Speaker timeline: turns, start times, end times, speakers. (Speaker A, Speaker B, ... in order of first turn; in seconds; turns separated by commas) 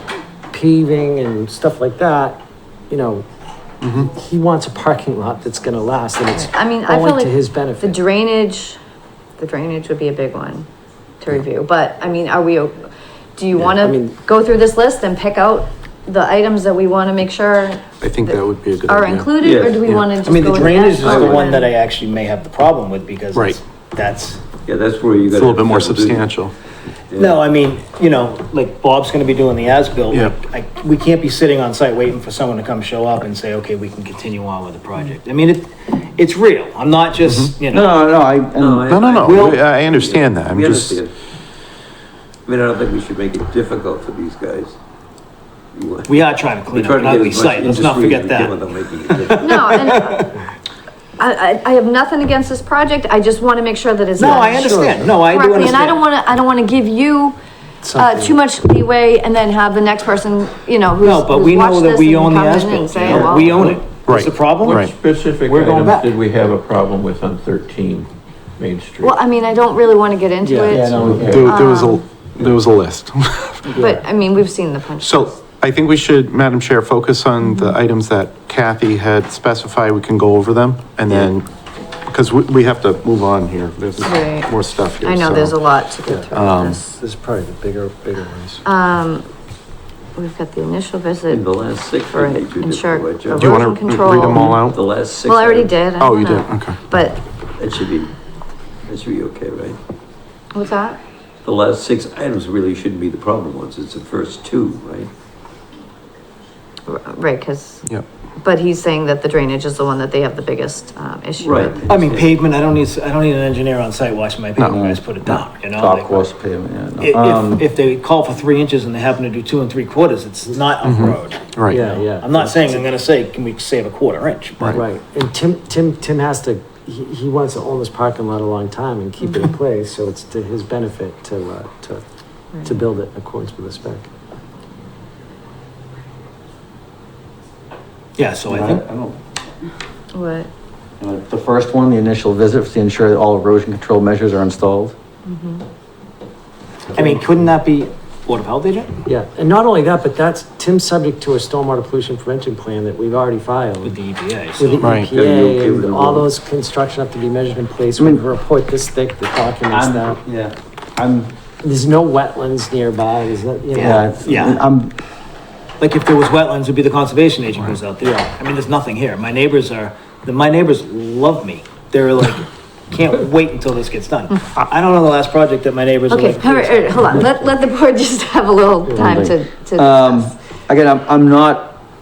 Speaker A: 0.5-3.2, Speaker B: 3.8-4.1, Speaker A: 4.0-8.0, Speaker C: 6.3-8.8, Speaker C: 9.4-10.7, Speaker C: 11.2-21.7, Speaker A: 13.5-14.2, Speaker B: 18.0-20.2, Speaker D: 19.4-19.9, Speaker E: 20.2-24.4, Speaker D: 20.6-21.5, Speaker B: 23.3-23.6, Speaker D: 24.6-26.3, Speaker B: 25.3-26.5, Speaker D: 27.1-27.6, Speaker E: 27.2-37.9, Speaker B: 30.1-30.4, Speaker B: 37.2-37.6, Speaker F: 37.7-38.9, Speaker D: 38.5-41.1, Speaker B: 38.9-41.1, Speaker E: 39.2-39.6, Speaker D: 42.5-44.8, Speaker D: 45.7-49.7, Speaker E: 46.1-50.0, Speaker C: 49.4-50.3, Speaker C: 51.2-57.4, Speaker E: 54.2-56.0, Speaker A: 54.4-55.1, Speaker A: 57.8-58.4, Speaker C: 57.9-63.6, Speaker E: 61.0-64.8, Speaker F: 63.1-63.4, Speaker D: 63.1-63.4, Speaker B: 63.9-64.9, Speaker G: 64.5-69.1, Speaker E: 65.5-66.1, Speaker C: 69.0-72.0, Speaker A: 70.4-71.3, Speaker F: 70.7-71.4, Speaker B: 71.3-73.8, Speaker A: 73.7-74.0, Speaker C: 73.8-75.4, Speaker B: 75.0-81.5, Speaker C: 77.4-77.7, Speaker B: 82.1-85.6, Speaker C: 84.0-87.0, Speaker B: 86.3-86.8, Speaker A: 86.9-88.6, Speaker C: 88.6-89.3, Speaker C: 90.2-94.6, Speaker D: 91.3-93.5, Speaker B: 93.3-94.8, Speaker D: 94.5-95.8, Speaker C: 95.2-97.2, Speaker B: 96.0-96.8, Speaker D: 97.6-98.1, Speaker D: 98.9-99.8, Speaker C: 100.5-101.0, Speaker D: 101.4-105.1, Speaker C: 106.9-107.8, Speaker C: 108.4-112.1, Speaker D: 111.4-112.4, Speaker E: 111.9-116.3, Speaker F: 114.6-115.0, Speaker F: 115.6-117.6, Speaker E: 117.0-124.7, Speaker B: 120.8-121.9, Speaker A: 121.7-122.8, Speaker B: 124.6-124.8, Speaker A: 124.7-132.0, Speaker C: 129.2-129.5, Speaker C: 132.5-132.8, Speaker A: 132.6-134.1, Speaker E: 138.2-138.8, Speaker F: 138.5-139.1, Speaker C: 140.1-140.5, Speaker F: 141.0-144.9, Speaker C: 145.2-145.6, Speaker E: 146.9-148.9, Speaker A: 149.0-154.0, Speaker E: 153.8-154.9, Speaker A: 154.6-160.2, Speaker B: 154.8-155.1, Speaker D: 155.1-156.3, Speaker F: 158.0-158.2, Speaker F: 159.7-161.3, Speaker A: 161.6-164.1, Speaker E: 163.7-164.6, Speaker F: 163.7-164.9, Speaker E: 165.8-177.0, Speaker C: 176.1-180.3, Speaker F: 178.9-181.8